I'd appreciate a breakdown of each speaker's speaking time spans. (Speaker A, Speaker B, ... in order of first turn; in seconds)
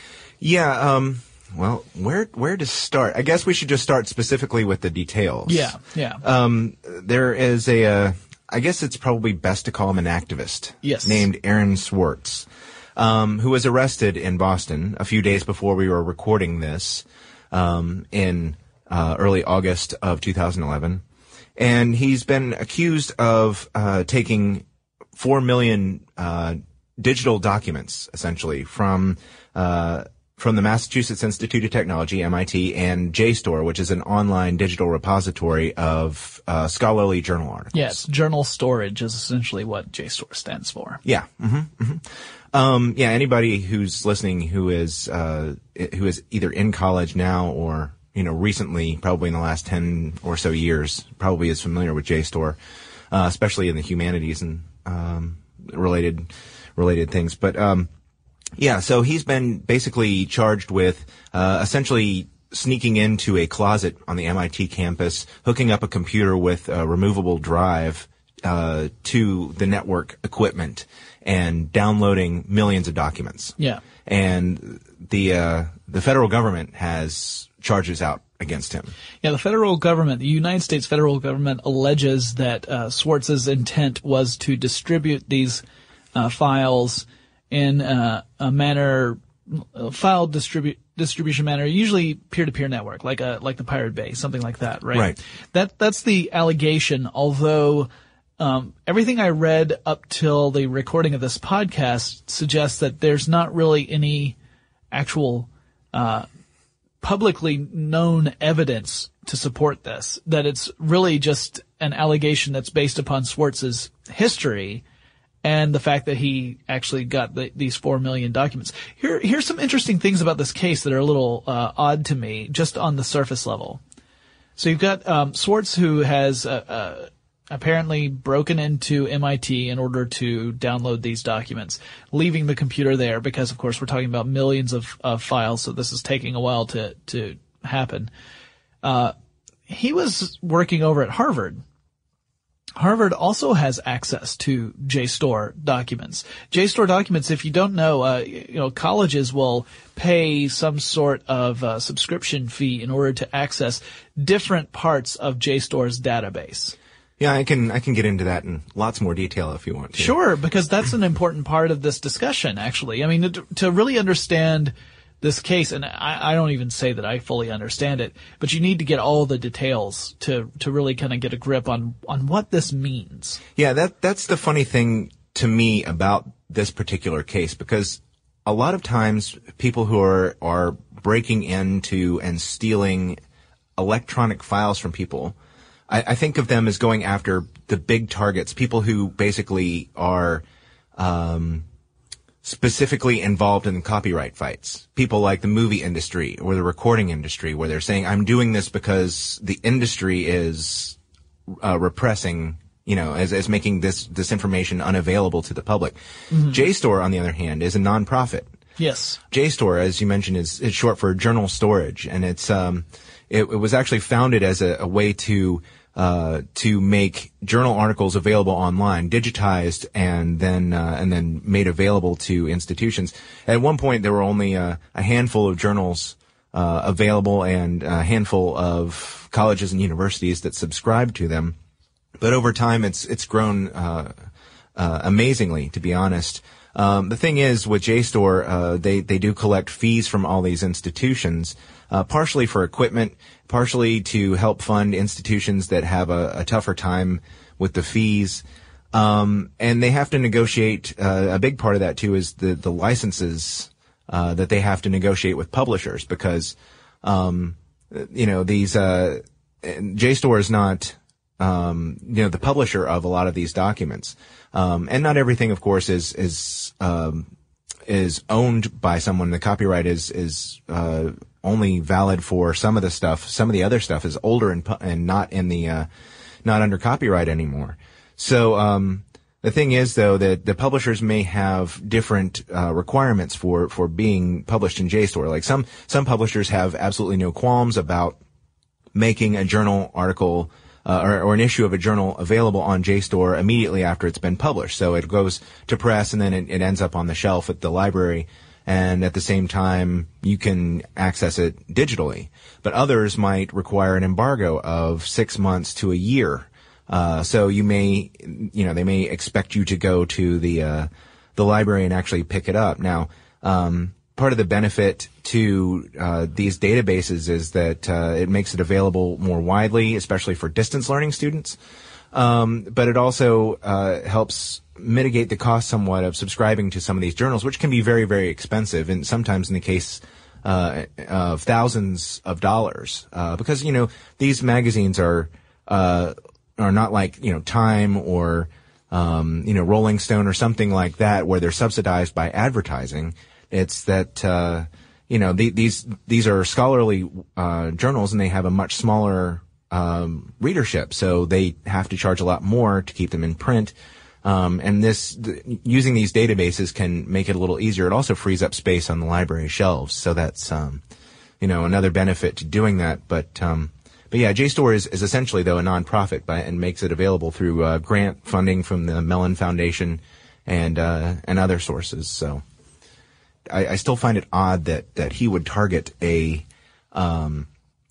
Speaker A: 0.4-21.0, 21.6-38.0, 41.0-52.6, 53.1-57.9, 58.6-78.9, 94.9-95.2, 157.2-160.1, 173.6-183.2, 183.8-185.3, 185.9-190.4, 190.9-191.7, 192.4-201.0, 201.5-206.0, 206.5-208.5, 209.3-231.6, 232.2-234.1, 234.8-267.3, 267.9-275.9, 276.4-288.2, 288.9-321.6, 322.1-360.8, 361.4-372.4, 373.5-377.5
Speaker B: 5.5-6.2, 10.8-11.3, 37.7-41.0, 79.2-85.6, 86.1-104.3, 104.9-106.3, 107.0-114.8, 115.4-123.8, 124.6-138.1, 138.8-139.1, 139.7-141.6, 142.8-156.8, 159.9-173.4, 206.3-206.6, 208.8-209.2